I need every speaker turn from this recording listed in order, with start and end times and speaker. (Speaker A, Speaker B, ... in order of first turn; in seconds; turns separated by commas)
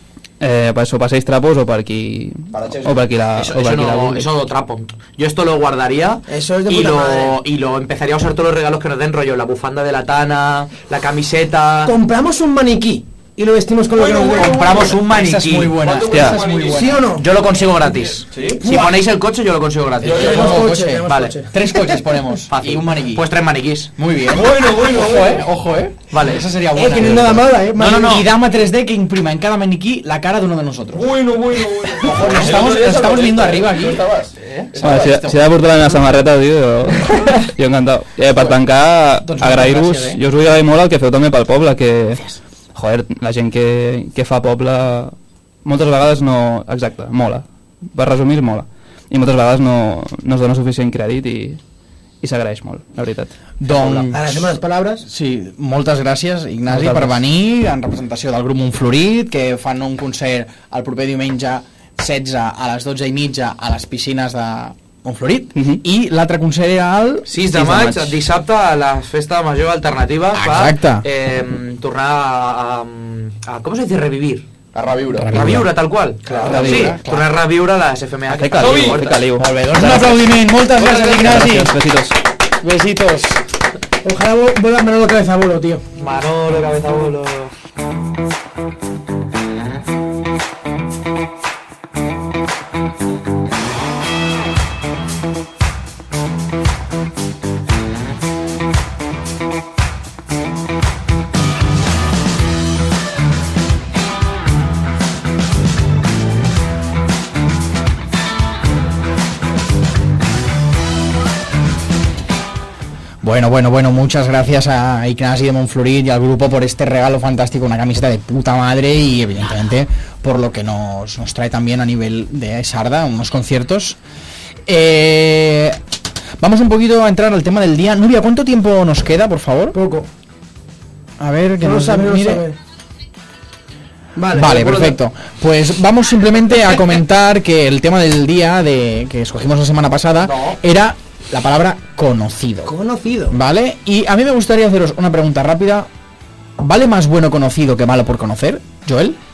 Speaker A: 0.4-4.3, Speaker B: 2.5-3.0, Speaker C: 3.4-11.9, Speaker D: 6.3-7.4, Speaker D: 11.8-14.7, Speaker B: 14.0-14.9, Speaker E: 14.1-17.1, Speaker C: 14.4-15.8, Speaker B: 15.8-17.0, Speaker A: 16.1-16.4, Speaker D: 16.6-17.3, Speaker C: 17.1-21.4, Speaker B: 18.2-18.6, Speaker D: 18.6-19.0, Speaker B: 20.0-20.6, Speaker D: 20.1-21.9, Speaker E: 20.1-23.3, Speaker C: 22.5-23.9, Speaker E: 23.9-31.1, Speaker B: 24.3-25.4, Speaker C: 26.1-26.4, Speaker D: 26.7-28.2, Speaker C: 27.8-28.3, Speaker B: 30.9-35.2, Speaker E: 32.0-36.0, Speaker A: 34.8-42.2, Speaker E: 39.2-40.2, Speaker A: 42.8-51.6, Speaker A: 52.2-54.1, Speaker E: 53.6-67.3, Speaker D: 54.1-55.1, Speaker A: 56.7-57.2, Speaker A: 65.5-65.8, Speaker C: 67.2-74.5, Speaker A: 67.5-68.2, Speaker E: 70.3-71.1, Speaker B: 74.7-75.4, Speaker E: 75.2-75.7, Speaker C: 75.3-79.2, Speaker E: 76.3-77.3, Speaker A: 76.5-77.0, Speaker A: 78.3-80.2, Speaker B: 78.6-79.2, Speaker E: 79.4-81.8, Speaker A: 80.8-82.2, Speaker E: 82.6-83.4, Speaker D: 84.0-85.8, Speaker C: 86.0-87.5, Speaker E: 113.2-124.0, Speaker E: 124.7-125.8, Speaker E: 126.4-129.8, Speaker D: 129.7-130.1, Speaker E: 131.2-132.4, Speaker D: 131.6-132.6, Speaker D: 134.2-134.7, Speaker E: 134.3-142.8, Speaker C: 134.4-135.0, Speaker D: 142.7-143.4, Speaker E: 143.3-145.9, Speaker E: 146.6-149.2